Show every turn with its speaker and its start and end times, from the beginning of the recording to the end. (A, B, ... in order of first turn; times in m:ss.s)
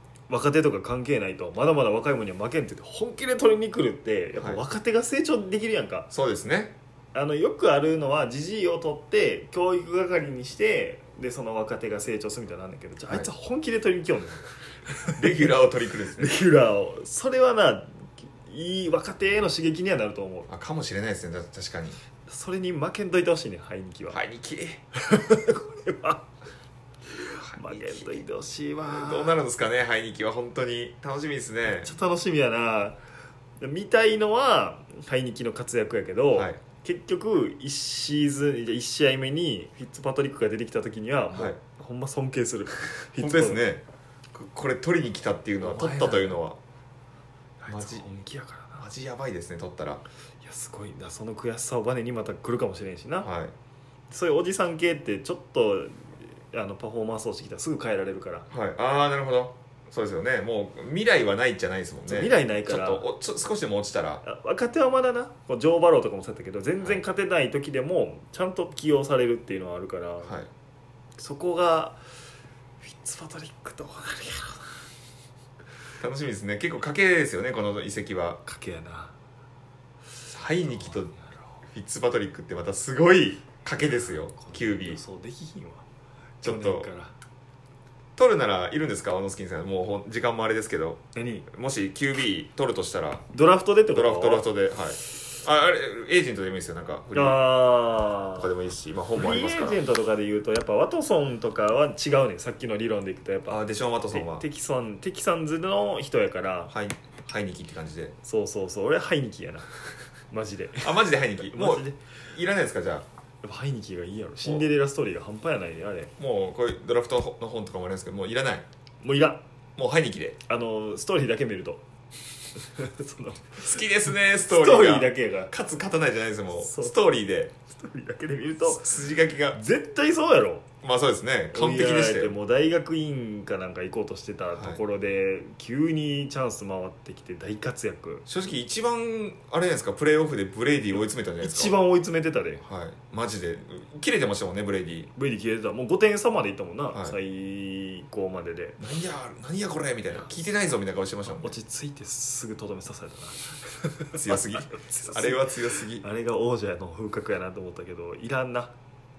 0:00.3-0:06.1 A
0:04.4-0:04.6 B
0:06.1-0:06.7 B
0:07.1-0:15.5 A
0:15.1-0:16.4 B
0:16.1-0:20.5 A
0:20.5-0:22.0 B
0:22.3-0:24.2 A
0:24.1-0:24.8 B
0:25.0-0:26.3 A
0:27.1-0:29.4 A
0:27.4-0:28.2 B
0:28.9-0:31.9 B
0:31.7-0:33.0 A
0:33.6-0:43.6 A
0:36.3-0:36.6 B
0:41.3-0:41.6 B
0:43.2-0:46.6 B
0:45.6-0:46.4 A
0:47.6-0:48.9 A
0:47.7-0:48.0 B
0:48.8-0:50.0 B
0:50.4-0:53.3 A
0:53.2-0:53.5 B
0:54.1-0:58.5 A
0:58.5-1:04.2 B
1:02.1-1:03.0 A
1:04.2-1:10.4 A
1:10.2-1:10.5 B
1:11.2-1:12.0 A
1:12.8-1:14.8 A
1:16.0-1:18.4 B
1:18.4-1:19.1 A
1:20.3-1:21.1 B
1:20.7-1:21.6 A
1:21.7-1:25.0 B
1:23.8-1:25.8 A
1:26.4-1:26.9 B
1:26.4-1:27.1 A
1:28.2-1:33.3 B
1:31.2-1:31.5 A
1:33.3-1:34.5 A
1:33.9-1:37.6 B
1:37.1-1:38.5 A
1:38.3-1:39.8 B
1:39.2-1:46.7 A
1:43.5-1:44.4 B
1:46.7-1:48.1 B
1:48.2-1:52.0 A
1:50.8-1:53.1 B
1:53.4-1:56.1 A
1:56.2-1:58.6 B
1:59.0-1:59.4 A
1:59.8-2:00.4 B
2:00.5-2:01.8 A
2:02.6-2:03.8 A
2:03.6-2:07.5 B
2:04.5-2:05.5 A
2:06.6-2:07.0 A
2:07.7-2:08.9 A
2:08.6-2:09.6 B
2:09.5-2:10.7 A
2:10.8-2:12.4 B
2:11.5-2:18.2 A
2:14.5-2:14.8 B
2:18.3-2:21.8 B
2:21.4-2:22.6 A
2:22.6-2:25.1 B
2:25.2-2:28.8 A
2:28.8-2:31.5 B
2:31.3-2:38.7 A
2:34.1-2:36.1 B